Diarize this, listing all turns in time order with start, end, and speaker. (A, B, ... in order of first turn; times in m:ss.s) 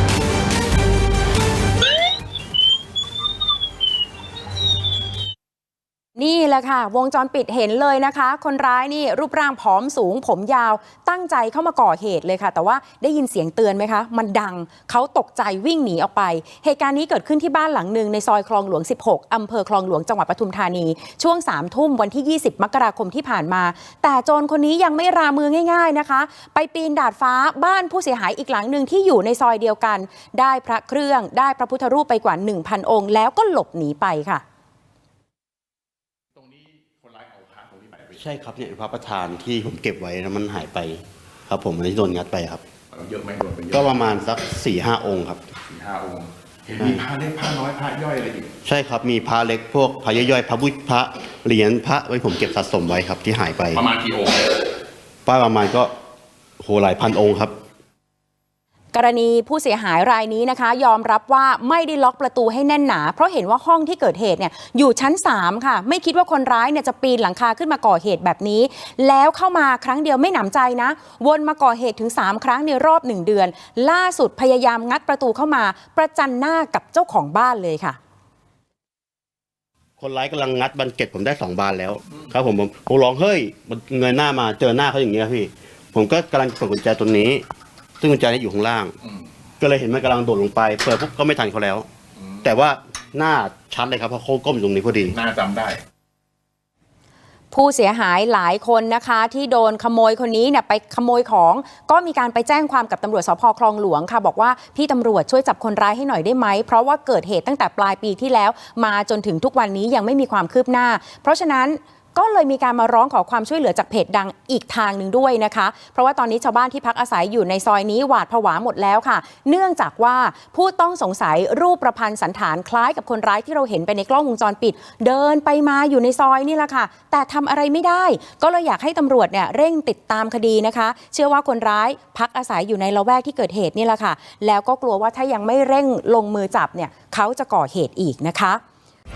0:06.2-0:34.4 A
0:36.4-0:38.2 B
0:38.2-0:42.6 C
0:42.9-0:43.8 B
0:43.7-0:45.4 C
0:45.7-0:48.5 B
0:46.8-0:47.0 C
0:48.6-0:53.8 C
0:53.8-0:54.6 B
0:55.3-0:55.9 C
0:56.6-0:57.5 C
0:58.9-1:18.0 A
1:20.0-1:27.4 C
1:28.0-1:29.0 C
1:29.6-1:31.9 C
1:32.4-1:35.2 C
1:35.2-1:35.8 B
1:37.5-2:18.6 A